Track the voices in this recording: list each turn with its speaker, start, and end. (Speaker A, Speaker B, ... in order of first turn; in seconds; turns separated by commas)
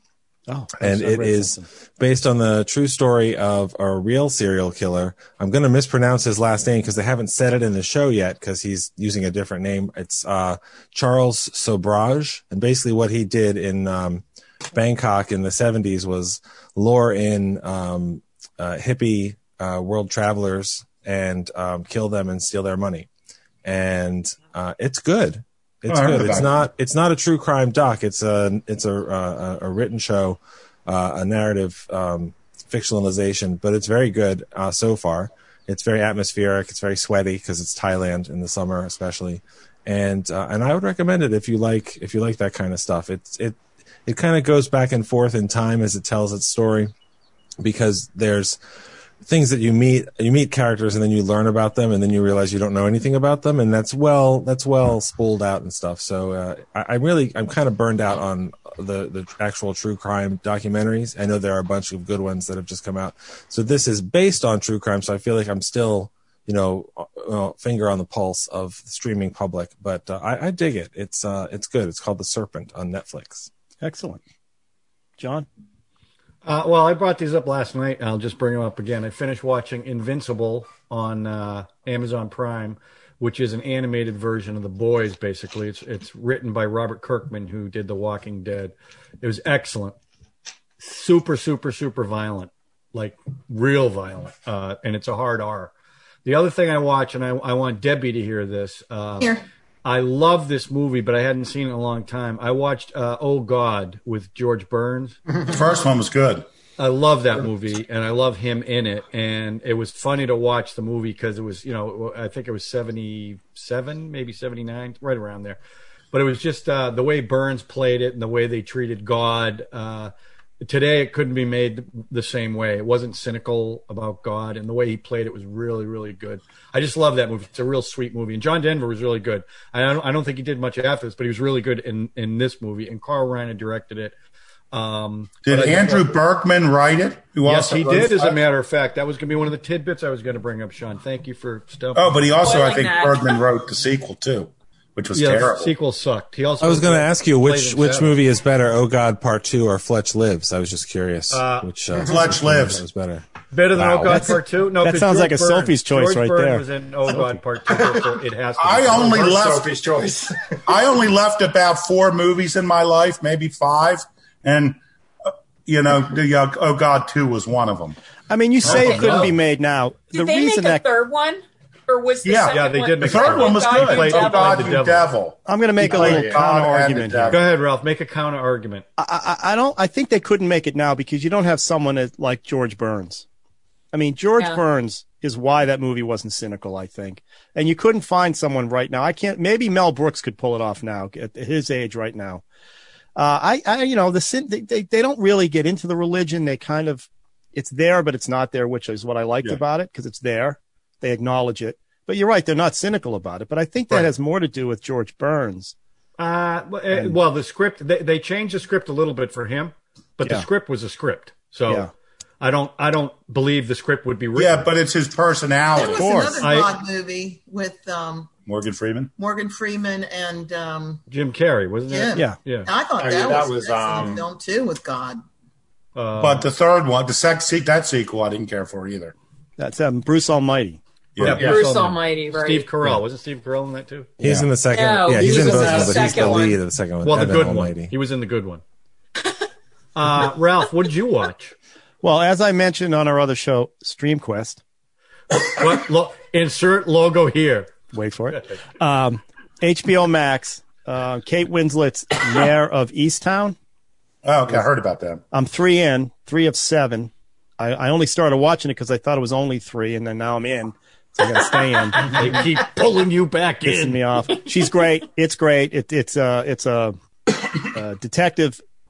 Speaker A: 0.5-1.7, Speaker B: 0.8-23.1, Speaker B: 23.6-46.9, Speaker C: 25.9-26.6, Speaker B: 47.6-48.6, Speaker B: 49.2-73.5, Speaker A: 73.8-74.2, Speaker A: 75.2-75.5, Speaker D: 76.4-90.0, Speaker D: 90.8-95.7, Speaker D: 96.2-99.3, Speaker D: 99.8-105.2, Speaker C: 105.5-106.5, Speaker D: 106.8-115.6, Speaker D: 116.1-134.2, Speaker D: 134.7-136.2, Speaker C: 135.4-138.4, Speaker D: 137.4-142.4, Speaker C: 141.9-145.7, Speaker E: 142.4-143.4, Speaker D: 145.1-148.2, Speaker B: 146.6-154.4, Speaker D: 151.3-151.7, Speaker C: 152.0-152.8, Speaker D: 153.5-159.4, Speaker A: 154.1-157.4, Speaker C: 158.6-159.7, Speaker F: 158.9-160.6, Speaker C: 160.7-168.0, Speaker A: 168.3-170.8, Speaker D: 168.6-169.4, Speaker E: 170.1-174.8, Speaker C: 172.2-177.4, Speaker D: 172.5-175.1, Speaker A: 175.5-177.4, Speaker F: 175.9-176.4, Speaker D: 177.3-178.8, Speaker A: 179.0-183.2, Speaker A: 183.9-192.4, Speaker A: 193.2-205.7, Speaker D: 206.2-211.9, Speaker D: 212.4-214.7, Speaker C: 214.4-216.2, Speaker G: 215.7-218.3, Speaker A: 215.9-216.4, Speaker D: 216.4-216.7, Speaker C: 218.5-219.1, Speaker G: 219.2-221.0, Speaker D: 221.1-222.7, Speaker G: 221.9-225.2, Speaker F: 223.0-224.2, Speaker D: 226.0-226.5, Speaker C: 226.2-229.1, Speaker A: 229.6-230.8, Speaker C: 231.2-231.5, Speaker D: 231.2-234.1, Speaker F: 231.2-231.6, Speaker E: 231.3-232.7, Speaker B: 234.2-237.9, Speaker C: 234.2-234.5, Speaker E: 234.7-236.6, Speaker F: 235.2-236.4, Speaker D: 237.0-238.6, Speaker D: 239.9-241.6, Speaker A: 242.0-244.6, Speaker D: 245.4-247.7, Speaker A: 247.9-253.6, Speaker C: 254.2-255.2, Speaker A: 255.3-262.1, Speaker D: 262.0-264.1, Speaker A: 263.6-267.0, Speaker A: 267.6-268.6